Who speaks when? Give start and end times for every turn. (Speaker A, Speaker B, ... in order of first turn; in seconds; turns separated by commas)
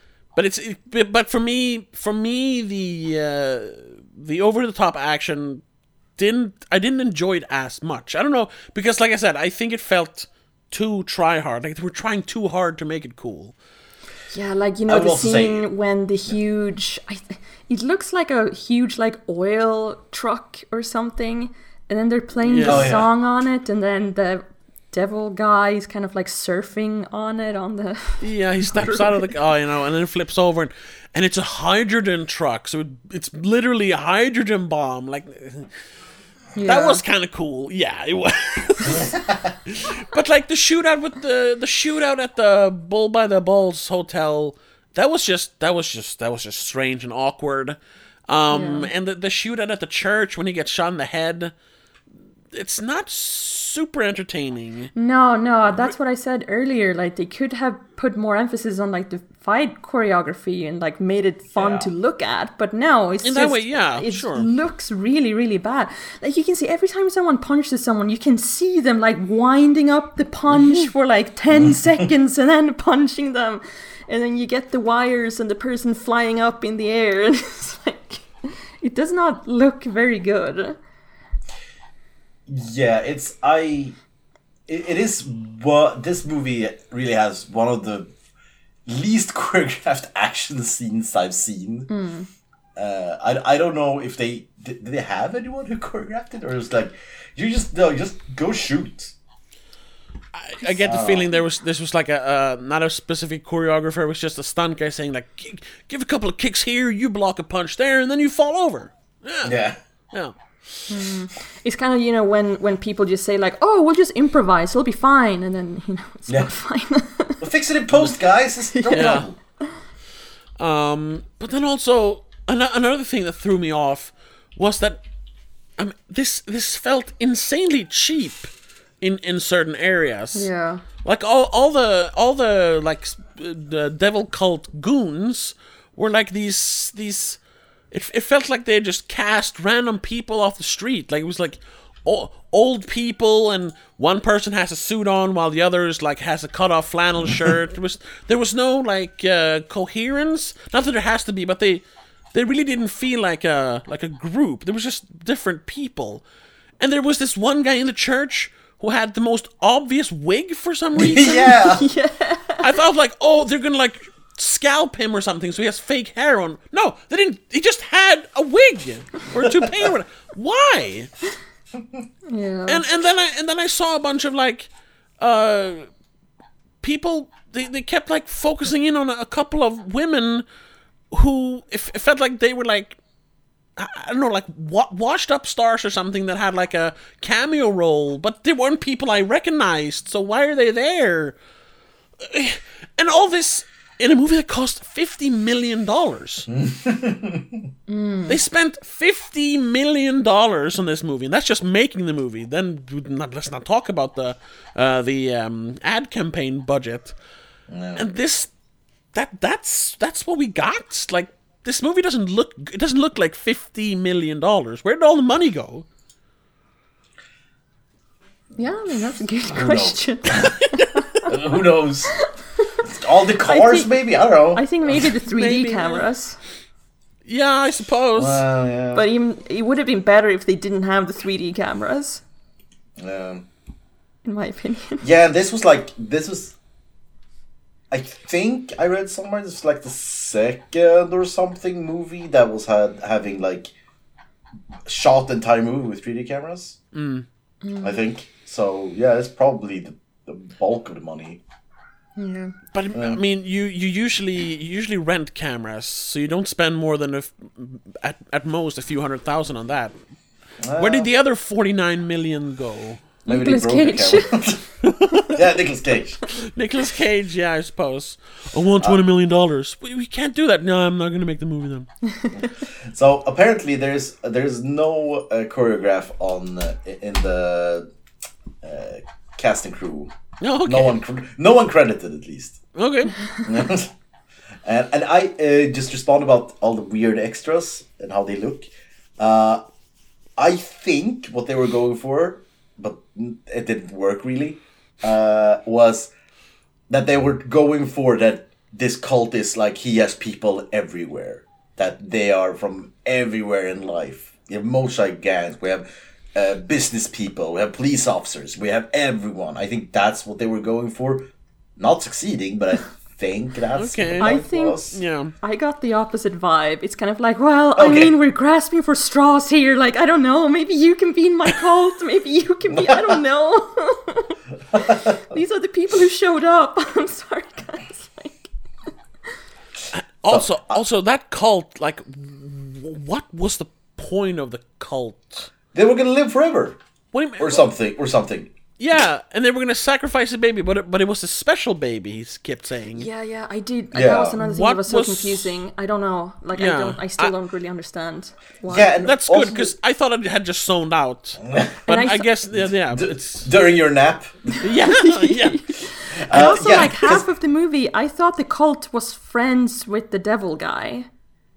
Speaker A: 0.3-5.6, Speaker A: 6.2-13.5, Speaker B: 14.3-29.3, Speaker C: 14.9-15.7, Speaker A: 22.4-23.0, Speaker C: 22.6-23.1, Speaker A: 28.2-35.7, Speaker B: 36.5-37.0, Speaker A: 36.6-51.5, Speaker C: 39.0-39.5, Speaker B: 48.5-48.9, Speaker A: 52.5-54.9, Speaker B: 55.0-80.8, Speaker C: 61.5-61.9, Speaker A: 63.2-64.5, Speaker C: 71.5-71.8, Speaker C: 82.5-84.0, Speaker C: 84.7-88.1, Speaker C: 88.9-91.9, Speaker B: 91.9-92.3, Speaker C: 92.8-99.1, Speaker A: 100.3-109.6, Speaker C: 100.8-101.3, Speaker C: 109.4-109.8, Speaker A: 110.1-110.9, Speaker B: 110.9-117.5, Speaker C: 117.4-119.3, Speaker B: 118.7-119.7, Speaker A: 118.9-119.3, Speaker A: 120.6-125.0, Speaker A: 125.8-128.5, Speaker A: 129.0-130.5, Speaker B: 130.3-130.8, Speaker A: 131.0-137.4, Speaker A: 137.9-151.8, Speaker A: 152.3-156.2, Speaker A: 156.8-161.6, Speaker C: 160.9-161.8, Speaker B: 161.1-162.7, Speaker A: 162.6-171.1, Speaker B: 172.3-172.8, Speaker A: 172.7-174.7, Speaker A: 175.2-175.9, Speaker A: 176.8-180.4, Speaker A: 181.1-183.0, Speaker A: 183.8-191.4, Speaker A: 192.2-196.5, Speaker C: 196.5-197.7, Speaker B: 197.9-198.4, Speaker A: 198.3-207.1, Speaker C: 207.7-208.1, Speaker A: 208.0-208.5, Speaker A: 209.1-215.9, Speaker B: 218.6-221.6, Speaker C: 219.5-220.6, Speaker C: 221.3-222.1, Speaker B: 222.1-222.8, Speaker C: 222.8-225.0, Speaker B: 223.4-226.4, Speaker A: 225.3-226.1, Speaker A: 227.2-228.4, Speaker C: 228.2-229.1, Speaker B: 228.9-232.2, Speaker C: 233.0-233.5, Speaker B: 234.2-235.1, Speaker C: 235.0-236.6, Speaker C: 237.9-243.7, Speaker C: 244.9-246.8, Speaker A: 246.9-247.3, Speaker B: 247.6-247.9, Speaker C: 247.8-251.4, Speaker B: 252.2-252.6, Speaker A: 252.7-260.0, Speaker C: 252.9-253.2, Speaker C: 260.6-261.1, Speaker A: 260.8-263.1, Speaker B: 263.2-264.4, Speaker C: 263.2-264.7, Speaker A: 264.9-265.3, Speaker C: 265.3-266.2, Speaker A: 266.3-271.9, Speaker C: 272.3-277.9, Speaker C: 278.6-280.1, Speaker A: 280.4-281.0, Speaker C: 280.6-282.6, Speaker A: 282.8-283.2, Speaker C: 283.4-283.9, Speaker C: 284.6-289.6, Speaker C: 290.4-296.1, Speaker C: 296.9-315.0, Speaker A: 313.8-315.4, Speaker B: 314.2-328.5, Speaker C: 317.8-318.1, Speaker C: 322.7-323.2, Speaker C: 324.7-325.2, Speaker A: 329.9-335.5, Speaker C: 330.3-330.8, Speaker C: 335.7-336.8, Speaker A: 337.1-337.7, Speaker C: 337.4-338.5, Speaker A: 338.8-343.1, Speaker B: 342.9-348.9, Speaker C: 343.9-344.4, Speaker A: 344.3-345.5, Speaker A: 346.6-347.3, Speaker C: 348.7-349.7, Speaker A: 349.0-353.5, Speaker C: 351.4-351.8, Speaker B: 351.9-352.3, Speaker C: 352.5-354.6, Speaker A: 354.6-355.6, Speaker B: 354.8-361.1, Speaker C: 356.2-357.2